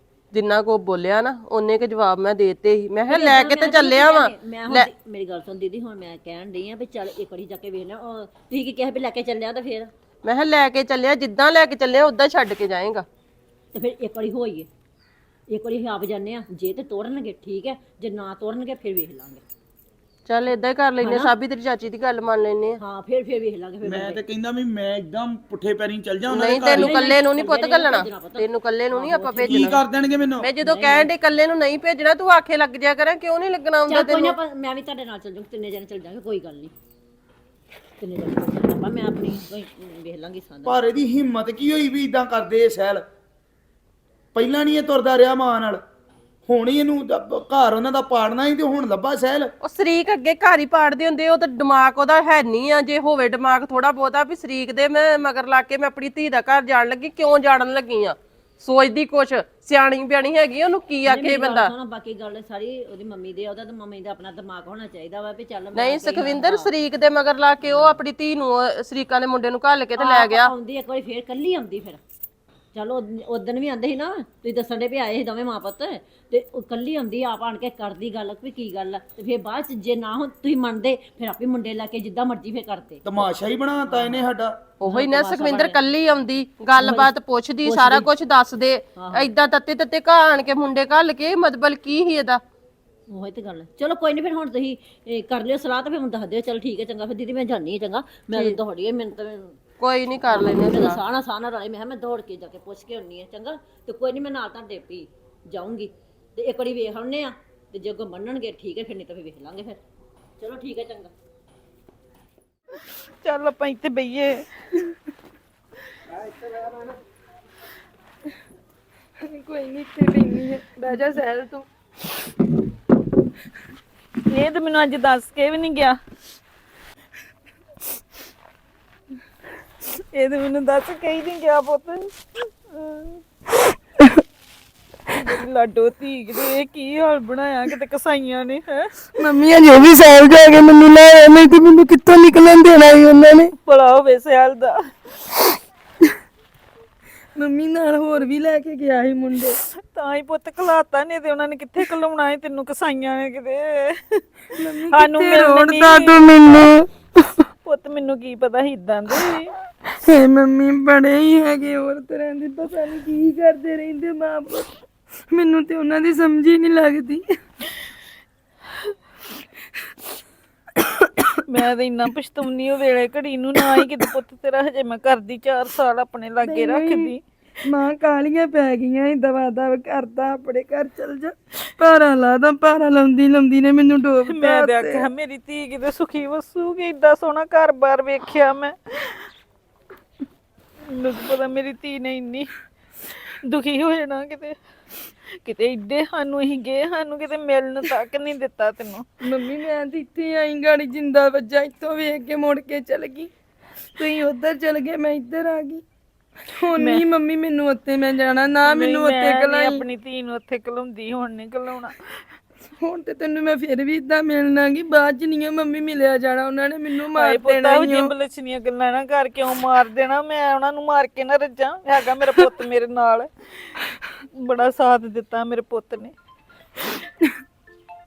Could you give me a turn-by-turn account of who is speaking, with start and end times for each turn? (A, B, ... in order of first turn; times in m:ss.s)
0:00.3-0:04.9 A
0:03.1-0:09.9 B
0:10.2-0:13.0 A
0:13.7-0:14.7 B
0:15.5-0:19.4 B
0:20.3-0:22.8 A
0:21.0-0:21.3 B
0:22.8-0:24.2 B
0:23.8-0:26.9 C
0:26.3-0:29.8 A
0:26.6-0:29.8 B
0:29.5-0:30.5 C
0:30.4-0:34.4 A
0:30.6-0:31.1 B
0:33.9-0:36.7 B
0:38.0-0:40.8 B
0:40.7-0:43.0 C
0:44.4-0:45.8 C
0:46.5-0:49.5 C
0:49.6-1:01.7 A
1:01.1-1:06.7 B
1:05.8-1:10.5 A
1:07.6-1:08.0 B
1:10.0-1:12.0 B
1:12.7-1:23.0 B
1:23.0-1:24.6 C
1:23.9-1:24.3 B
1:24.8-1:32.4 A
1:24.9-1:25.8 B
1:26.8-1:27.1 B
1:27.6-1:28.1 B
1:29.0-1:29.3 B
1:33.1-1:39.6 B
1:38.3-1:38.6 A
1:39.8-1:41.0 A
1:40.3-1:49.8 B
1:50.4-1:51.1 B
1:53.2-1:54.4 D
1:59.2-2:01.6 E
2:04.3-2:06.0 D
2:10.1-2:12.1 D
2:12.7-2:13.2 D
2:15.1-2:18.9 D
2:19.2-2:23.5 E
2:23.7-2:24.8 D
2:27.4-2:29.6 E
2:29.9-2:34.2 D
2:34.6-2:36.9 E
2:34.9-2:36.3 D
2:37.6-2:39.5 D
2:40.0-2:44.7 E
2:45.3-2:47.2 E
2:51.5-2:57.2 D
2:56.4-2:57.1 E
2:57.7-3:05.1 E
3:04.2-3:09.3 D
3:10.9-3:12.5 D
3:13.2-3:14.6 D
3:15.4-3:19.0 D
3:19.2-3:23.3 E
3:24.0-3:25.8 E
3:26.6-3:29.9 E
3:26.8-3:27.0 D
3:28.7-3:31.9 D
3:32.8-3:38.1 E
3:37.1-3:43.7 D
3:44.4-3:46.1 D